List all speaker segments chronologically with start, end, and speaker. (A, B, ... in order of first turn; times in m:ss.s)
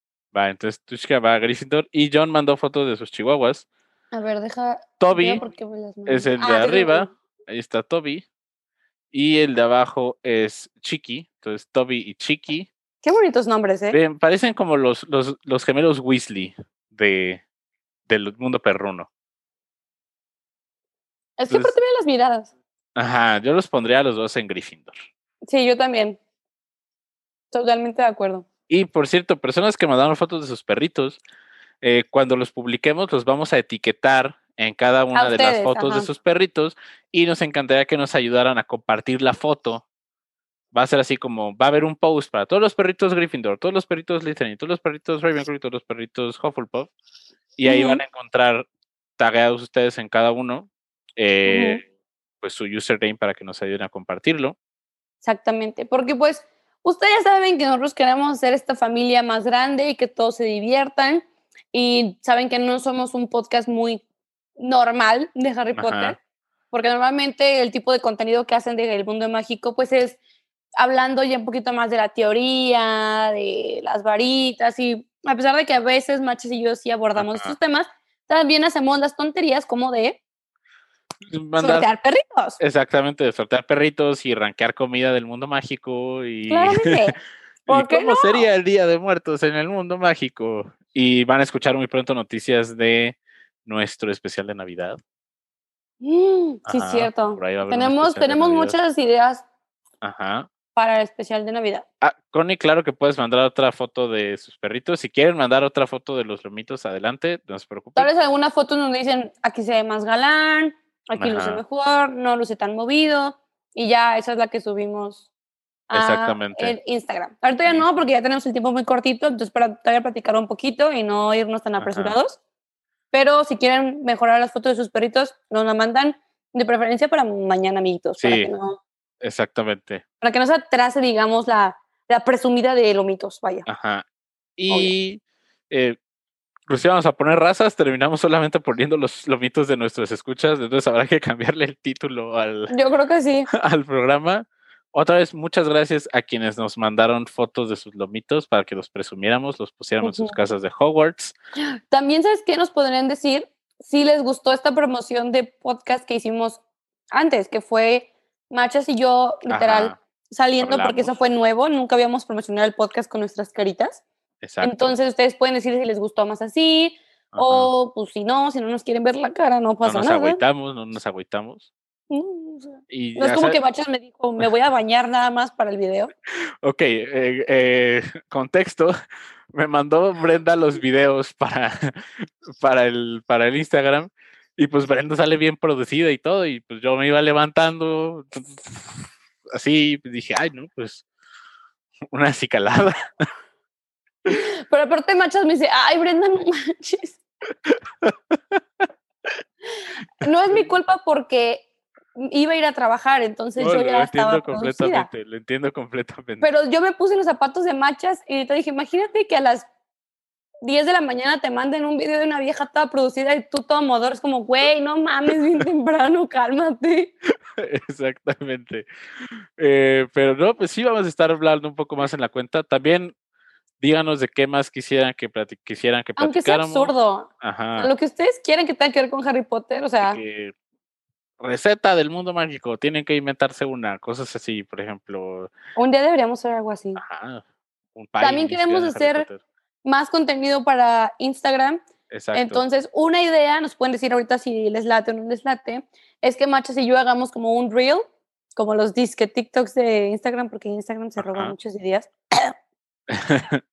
0:00.3-0:03.7 A
0:04.1-0:07.1 B
0:05.0-0:05.4 A
0:06.1-0:08.2 A
0:09.1-0:12.7 A
0:13.0-0:14.0 B
0:13.9-0:17.4 A
0:18.1-0:19.1 A
0:21.4-0:22.5 B
0:21.5-0:21.8 A
0:23.0-0:25.0 A
0:25.4-0:26.2 B
0:27.5-0:28.4 B
0:28.7-0:31.2 A
0:31.8-0:39.8 A
0:35.1-0:36.1 B
0:40.7-0:46.9 A
0:47.6-0:48.7 A
0:47.6-0:48.0 B
0:49.2-0:51.8 A
0:51.4-0:51.8 B
0:52.4-0:54.6 A
0:55.2-1:04.0 B
1:04.6-1:06.2 B
1:05.7-1:06.2 A
1:06.7-1:10.2 B
1:10.8-1:20.2 B
1:17.2-1:17.6 A
1:21.3-1:21.9 A
1:21.6-1:22.6 B
1:22.6-1:27.2 A
1:26.5-1:27.2 B
1:27.7-1:35.0 A
1:27.7-1:28.5 B
1:36.0-1:39.4 B
1:36.7-1:38.8 A
1:40.0-1:40.5 A
1:40.7-1:41.8 B
1:42.0-1:48.1 A
1:48.0-1:55.3 B
1:51.2-1:51.6 A
1:55.9-2:02.4 B
1:55.9-1:56.8 A
1:57.7-1:58.0 A
2:01.8-2:02.2 A
2:03.1-2:08.8 B
2:08.2-2:08.5 A
2:09.2-2:10.0 A
2:10.2-2:13.7 B
2:13.7-2:14.0 A
2:14.6-2:16.0 A
2:16.7-2:22.7 A
2:22.7-2:23.5 B
2:23.5-2:31.4 A
2:30.0-2:30.4 B
2:31.9-2:36.6 B
2:37.1-2:44.0 B
2:39.5-2:40.0 A
2:40.6-2:41.1 A
2:44.4-2:45.0 A
2:44.6-2:50.4 B
2:47.3-2:47.7 A
2:49.8-2:51.7 A
2:52.1-2:56.1 B
2:52.9-2:53.6 A
2:56.6-2:58.9 A
2:59.5-3:11.0 A
3:12.1-3:12.9 A
3:14.3-3:17.2 B
3:17.6-3:18.9 A
3:19.8-3:25.1 B
3:23.6-3:26.5 A
3:26.4-3:29.7 B
3:30.6-3:37.1 B
3:37.6-3:38.9 A
3:39.6-3:43.1 A
3:43.8-3:47.9 A
3:46.2-3:50.2 B
3:50.0-3:50.5 A
3:51.4-3:55.5 A
3:55.8-3:57.0 B
3:57.0-3:57.4 A
3:58.0-3:59.4 A
3:58.2-3:59.3 B
3:59.8-4:01.8 B
4:02.1-4:02.6 A
4:02.3-4:08.0 B
4:08.6-4:12.5 B
4:11.2-4:11.5 A
4:13.1-4:13.6 A